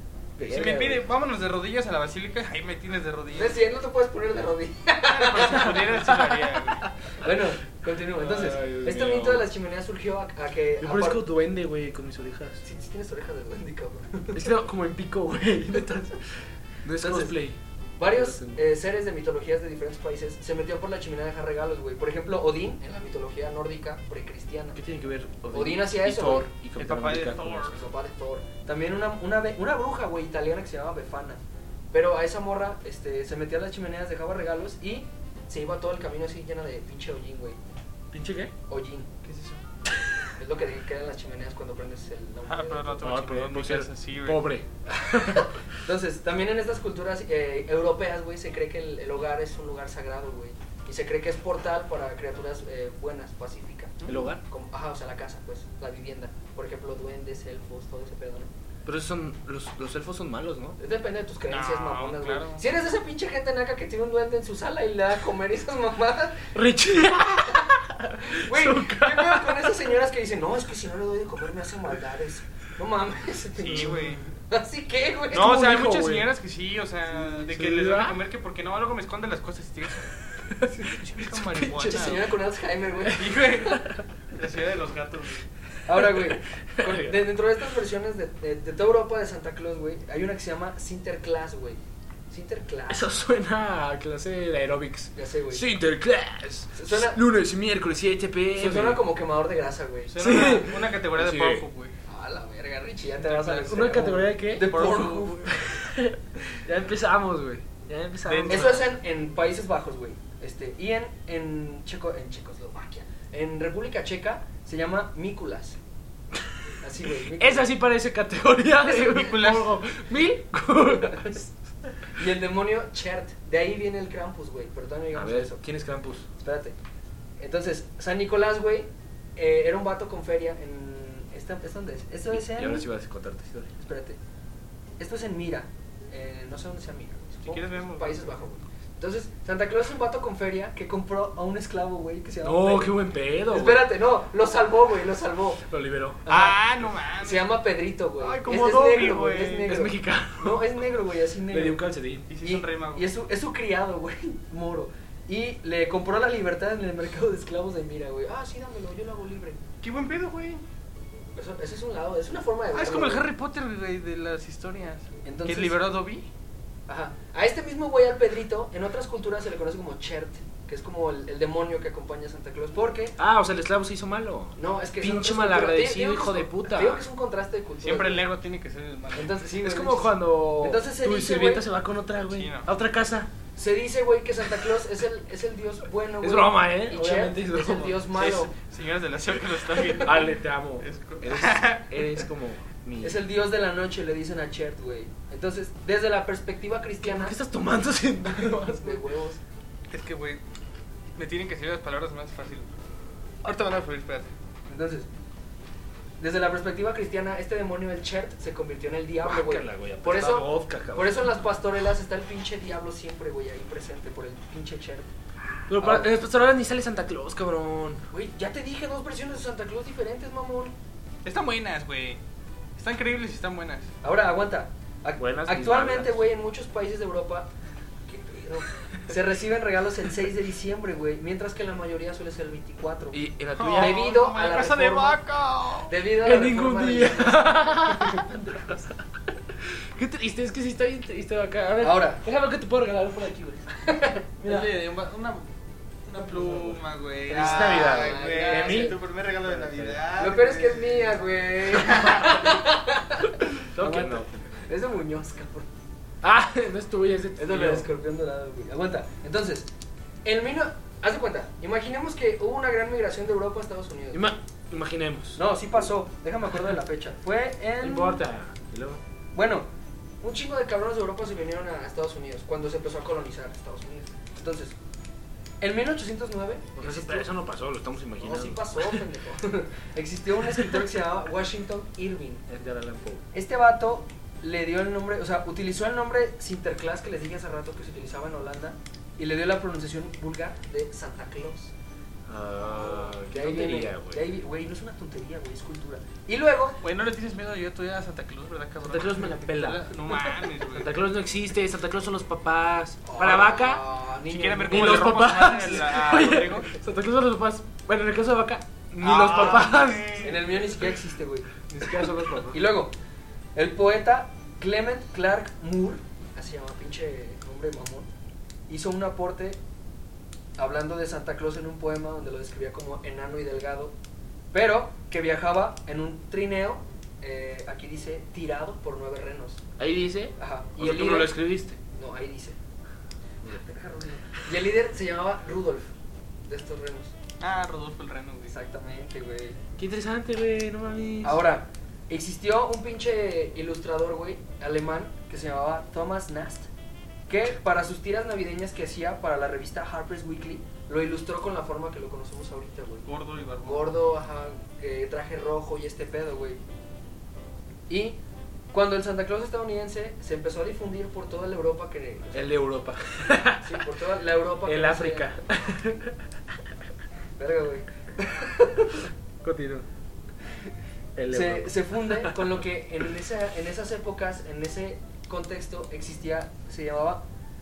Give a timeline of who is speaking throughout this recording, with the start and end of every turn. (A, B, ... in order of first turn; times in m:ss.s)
0:00.4-0:01.0 A
0:00.4-0:03.6 B
0:03.4-0:05.9 C
0:05.0-0:06.9 B
0:05.4-0:07.4 A
0:07.2-0:11.2 C
0:08.1-0:09.5 A
0:10.8-0:12.6 A
0:12.6-0:14.5 C
0:14.3-0:16.2 A
0:16.8-0:18.6 A
0:17.0-0:17.4 C
0:18.0-0:24.8 C
0:24.7-0:27.8 A
0:25.5-0:26.5 C
0:26.8-0:27.8 B
0:27.7-0:37.6 C
0:38.1-0:38.5 A
0:38.7-0:39.1 C
0:39.2-0:39.6 B
0:40.4-0:43.1 C
0:42.4-0:44.4 B
0:43.0-0:45.5 A
0:44.9-0:58.5 C
0:54.1-0:54.4 A
0:58.8-1:00.8 A
1:00.8-1:06.5 C
1:01.5-1:02.6 B
1:06.5-1:10.0 A
1:08.2-1:15.6 C
1:13.6-1:14.2 B
1:13.8-1:14.1 A
1:15.3-1:20.1 B
1:15.3-1:16.3 A
1:17.4-1:18.2 A
1:20.5-1:22.1 A
1:20.8-1:22.3 B
1:21.7-1:23.8 C
1:23.0-1:25.4 B
1:23.5-1:24.0 A
1:25.8-1:33.0 C
1:25.9-1:27.3 A
1:32.9-1:39.0 A
1:35.1-1:35.6 C
1:36.8-1:37.2 C
1:38.6-1:40.2 C
1:40.1-1:41.9 B
1:40.2-1:41.6 A
1:42.1-1:45.4 C
1:43.2-1:44.0 B
1:43.6-1:48.8 A
1:44.6-1:45.6 B
1:48.3-1:48.8 B
1:48.5-1:55.8 C
1:56.8-1:57.7 C
1:57.4-2:01.5 A
1:59.0-1:59.8 B
2:02.1-2:05.6 C
2:05.1-2:06.2 A
2:06.4-2:06.8 C
2:07.4-2:12.8 C
2:12.3-2:13.7 A
2:13.8-2:14.2 C
2:15.0-2:22.9 C
2:17.5-2:18.4 B
2:22.4-2:23.9 A
2:23.5-2:25.6 C
2:25.7-2:26.2 A
2:26.2-2:26.6 C
2:26.3-2:27.6 B
2:27.2-2:31.8 C
2:28.2-2:29.8 B
2:29.7-2:30.6 A
2:31.5-2:32.3 A
2:32.3-2:33.0 B
2:32.4-2:39.6 C
2:39.8-2:40.6 B
2:41.4-2:43.3 C
2:42.7-2:46.3 B
2:45.2-2:45.9 C
2:46.9-2:53.2 C
2:53.2-2:57.0 A
2:54.6-2:58.3 C
2:57.8-2:59.3 B
2:59.1-3:01.6 C
2:59.6-3:03.3 A
3:02.3-3:02.7 B
3:03.6-3:08.5 C
3:06.2-3:08.0 A
3:08.2-3:12.1 B
3:10.0-3:13.2 A
3:13.0-3:17.4 C
3:17.0-3:19.0 A
3:18.2-3:19.4 C
3:19.9-3:20.4 B
3:21.2-3:22.7 B
3:23.4-3:24.3 B
3:24.7-3:25.1 C
3:26.2-3:35.1 C
3:29.2-3:31.4 A
3:35.7-3:38.0 A
3:35.8-3:36.1 C
3:38.1-3:40.8 C
3:41.2-3:42.2 B
3:42.8-3:43.9 B
3:44.0-3:47.5 C
3:45.2-3:46.2 A
3:48.1-3:55.2 C
3:53.1-3:54.0 A
3:53.6-3:55.9 B
3:55.9-3:58.4 C
3:56.2-3:59.0 A
3:59.6-4:03.7 A
4:01.8-4:02.2 C
4:03.9-4:04.2 C
4:04.4-4:04.7 A
4:04.4-4:05.5 B
4:06.0-4:11.2 B
4:07.3-4:09.0 C
4:07.3-4:09.0 A
4:09.6-4:10.0 A
4:10.1-4:15.7 C
4:11.7-4:12.3 B
4:11.9-4:12.5 A
4:13.7-4:14.4 A
4:16.2-4:17.9 A
4:17.4-4:19.7 C
4:20.2-4:24.2 C
4:24.1-4:25.4 A
4:25.4-4:28.2 C
4:27.8-4:29.0 A
4:29.3-4:29.7 C
4:30.2-4:34.8 C
4:35.6-4:37.3 C
4:36.8-4:39.0 A
4:38.2-4:42.4 C
4:40.4-4:40.9 A
4:42.5-4:43.2 A
4:43.3-4:51.7 C
4:52.3-4:54.3 A
4:52.5-4:56.8 C
4:56.8-5:01.0 B
4:58.8-5:03.8 A
5:03.0-5:05.2 C
5:04.3-5:06.7 B
5:04.7-5:10.2 A
5:09.0-5:10.5 B
5:10.2-5:12.9 C
5:11.7-5:12.6 A
5:13.5-5:18.1 C
5:18.7-5:19.6 C
5:20.6-5:23.9 C
5:24.5-5:29.6 C
5:29.8-5:31.8 A
5:30.4-5:31.4 C
5:32.0-5:32.6 C
5:33.4-5:35.9 C
5:36.5-5:37.1 C
5:37.4-5:38.5 B
5:38.5-5:39.6 C
5:39.8-5:41.4 A
5:41.2-5:46.7 C
5:47.3-5:53.1 C
5:53.0-5:53.9 B
5:53.6-5:56.6 C
5:57.9-5:58.2 C
5:58.7-6:02.6 C
6:02.3-6:03.9 A
6:03.5-6:05.5 C
6:04.6-6:06.2 A
6:07.4-6:09.1 C
6:09.4-6:09.8 A
6:11.2-6:12.6 A
6:11.3-6:17.2 C